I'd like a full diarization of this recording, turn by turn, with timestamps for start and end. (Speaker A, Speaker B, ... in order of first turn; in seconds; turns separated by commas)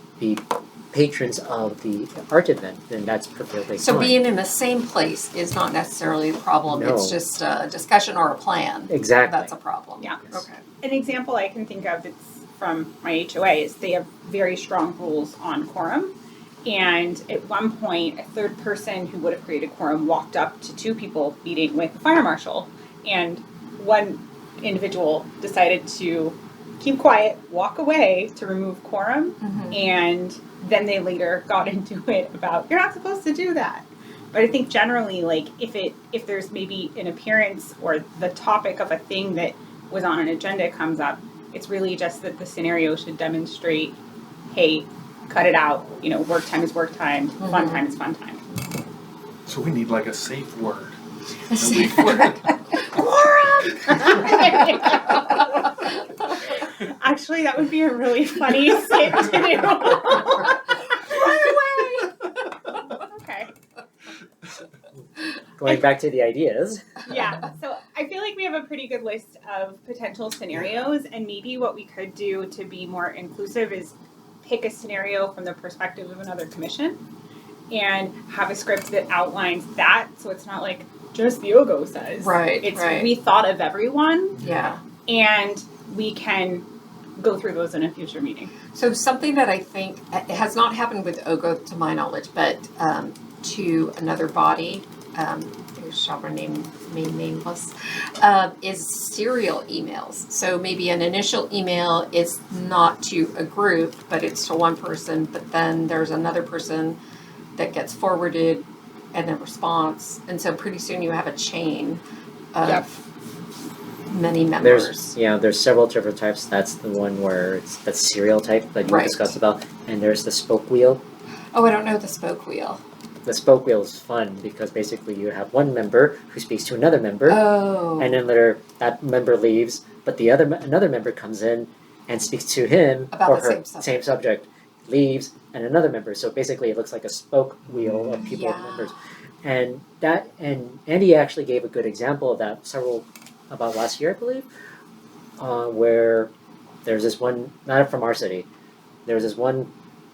Speaker A: 0.2-4.2, Speaker B: 3.8-10.6, Speaker A: 6.7-7.2, Speaker A: 8.9-9.5, Speaker C: 10.8-44.0, Speaker B: 29.4-29.8, Speaker C: 44.5-48.4, Speaker B: 47.4-47.8, Speaker D: 49.5-50.9, Speaker B: 51.5-52.4, Speaker D: 51.5-52.4, Speaker B: 53.0-54.4, Speaker C: 53.9-55.5, Speaker C: 56.3-61.6, Speaker B: 61.0-62.2, Speaker C: 62.9-63.5, Speaker A: 65.6-67.0, Speaker C: 67.0-77.0, Speaker C: 77.7-84.4, Speaker B: 82.2-83.1, Speaker B: 84.4-84.8, Speaker C: 85.0-86.7, Speaker C: 87.2-88.5, Speaker B: 88.7-107.0, Speaker B: 107.6-112.0, Speaker B: 112.5-113.0, Speaker B: 114.1-115.1, Speaker A: 114.6-121.0, Speaker B: 118.8-119.3, Speaker B: 121.5-122.8, Speaker A: 123.2-144.5, Speaker B: 127.2-128.2, Speaker B: 133.1-134.0, Speaker B: 138.2-139.0, Speaker A: 145.4-146.3, Speaker A: 146.8-148.5, Speaker A: 149.1-149.7